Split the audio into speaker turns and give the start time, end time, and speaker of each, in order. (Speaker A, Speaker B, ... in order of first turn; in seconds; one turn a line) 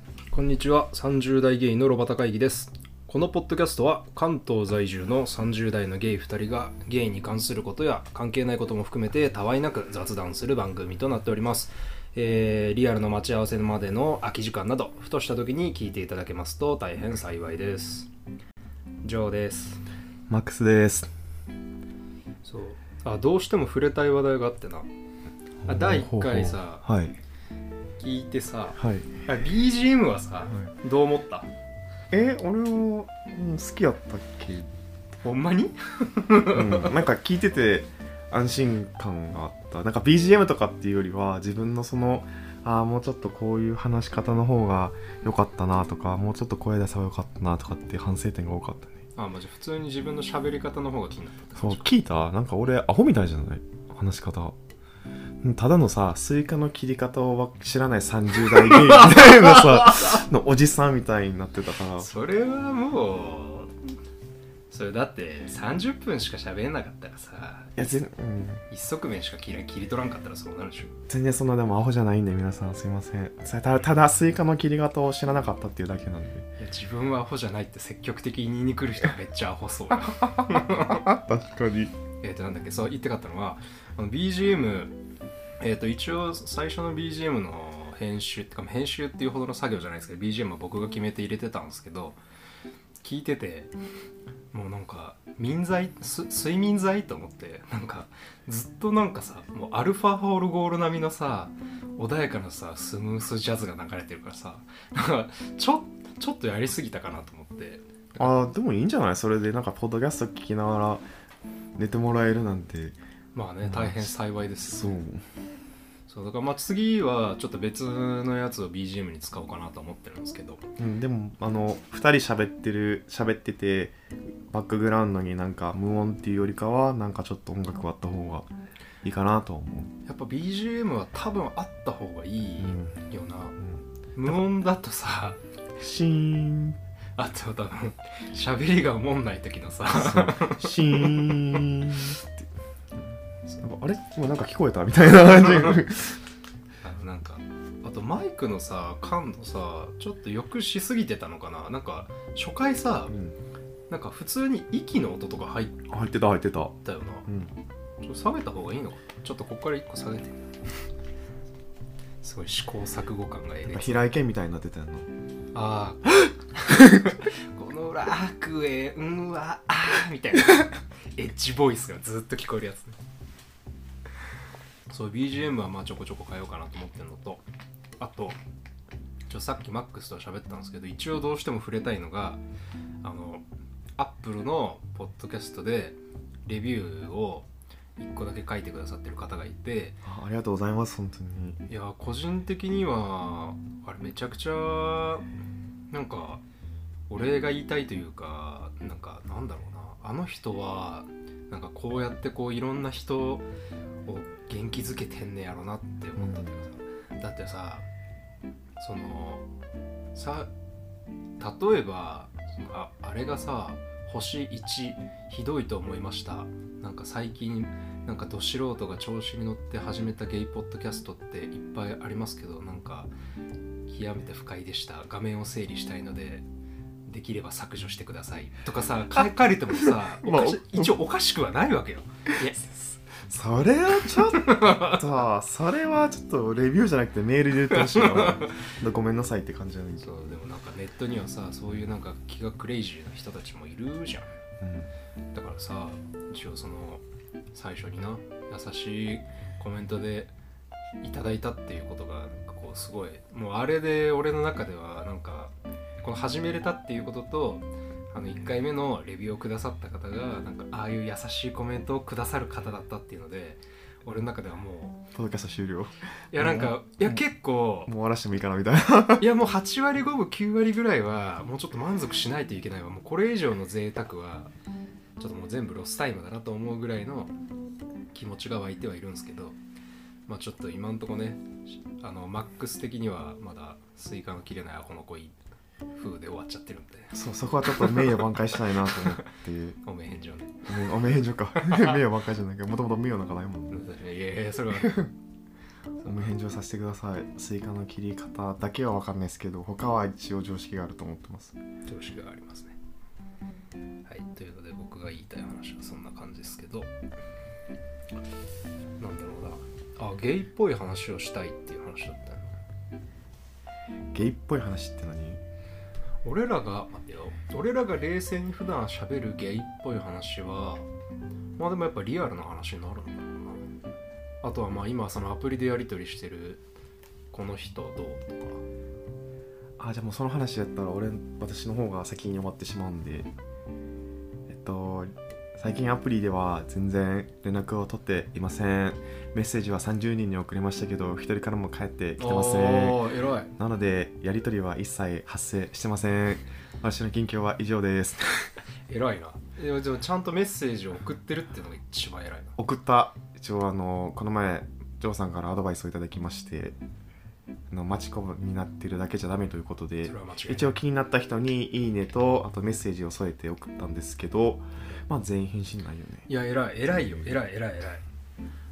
Speaker A: 0.3-18.1
Speaker A: 19.0-19.8
Speaker B: 20.3-21.1
Speaker A: 22.4-24.9
Speaker B: 25.6-27.2
Speaker A: 25.7-26.8
Speaker A: 28.0-31.5
Speaker B: 28.8-29.2
Speaker B: 32.1-34.7
Speaker A: 35.2-37.0
Speaker B: 36.5-49.0
Speaker A: 49.2-51.9
Speaker B: 51.6-54.5
Speaker B: 55.4-62.1
Speaker A: 58.5-60.2
Speaker A: 62.0-63.8
Speaker A: 64.7-67.9
Speaker B: 67.8-68.7
Speaker A: 68.7-70.9
Speaker B: 71.1-76.5
Speaker A: 76.6-81.1
Speaker B: 80.2-82.0
Speaker A: 82.2-85.0
Speaker A: 85.6-92.2
Speaker A: 93.0-93.7
Speaker A: 94.5-108.5
Speaker B: 108.2-111.1
Speaker B: 111.8-113.0
Speaker A: 113.3-114.9
Speaker B: 113.6-115.2
Speaker A: 116.1-120.7
Speaker B: 120.8-128.5
Speaker B: 129.0-129.9
Speaker A: 130.1-133.6
Speaker B: 132.6-133.0
Speaker A: 134.2-135.4
Speaker B: 135.8-136.8
Speaker A: 137.2-142.0
Speaker B: 139.9-142.5
Speaker B: 143.6-146.2
Speaker A: 146.8-153.2
Speaker B: 153.1-153.4
Speaker A: 153.9-155.8
Speaker B: 155.9-157.5
Speaker A: 156.8-157.3
Speaker A: 158.0-160.5
Speaker A: 162.2-164.1
Speaker B: 163.7-165.1
Speaker A: 165.5-173.0
Speaker B: 166.7-167.1
Speaker A: 174.9-177.4
Speaker A: 178.0-178.4
Speaker A: 179.3-182.4
Speaker A: 183.0-183.4
Speaker A: 184.0-190.0
Speaker B: 190.0-191.6
Speaker A: 191.7-195.3
Speaker A: 195.9-196.4
Speaker A: 197.1-203.5
Speaker A: 204.1-207.9
Speaker B: 206.2-206.6
Speaker A: 208.8-209.4
Speaker A: 210.1-210.5
Speaker A: 211.4-223.1
Speaker A: 223.9-226.4
Speaker A: 227.1-232.9
Speaker B: 230.2-231.0
Speaker B: 233.1-240.1
Speaker A: 234.3-235.0
Speaker A: 237.9-238.5
Speaker A: 240.0-244.3
Speaker B: 244.6-244.9
Speaker A: 245.3-247.0
Speaker A: 247.5-250.3
Speaker A: 251.0-265.0
Speaker B: 265.1-267.2
Speaker A: 266.3-267.9
Speaker B: 267.9-269.3
Speaker A: 269.2-274.5
Speaker A: 275.2-277.3
Speaker A: 278.1-279.6
Speaker A: 280.3-285.4
Speaker A: 285.9-289.3
Speaker B: 287.1-289.8
Speaker A: 289.8-290.9
Speaker B: 290.7-293.9
Speaker A: 291.6-292.0
Speaker A: 293.7-295.1
Speaker B: 294.8-295.1
Speaker B: 296.0-301.6
Speaker A: 301.9-302.8
Speaker A: 304.1-306.9
Speaker A: 309.0-312.6
Speaker B: 314.1-315.4
Speaker A: 316.2-320.9
Speaker A: 321.6-323.6
Speaker A: 324.4-326.6
Speaker A: 327.3-328.6
Speaker B: 329.8-333.3
Speaker B: 334.5-343.0
Speaker A: 342.2-343.5
Speaker B: 343.6-348.5
Speaker A: 348.9-352.6
Speaker B: 352.6-356.8
Speaker B: 357.7-366.3
Speaker A: 360.0-360.8
Speaker A: 366.3-368.0
Speaker B: 366.9-367.3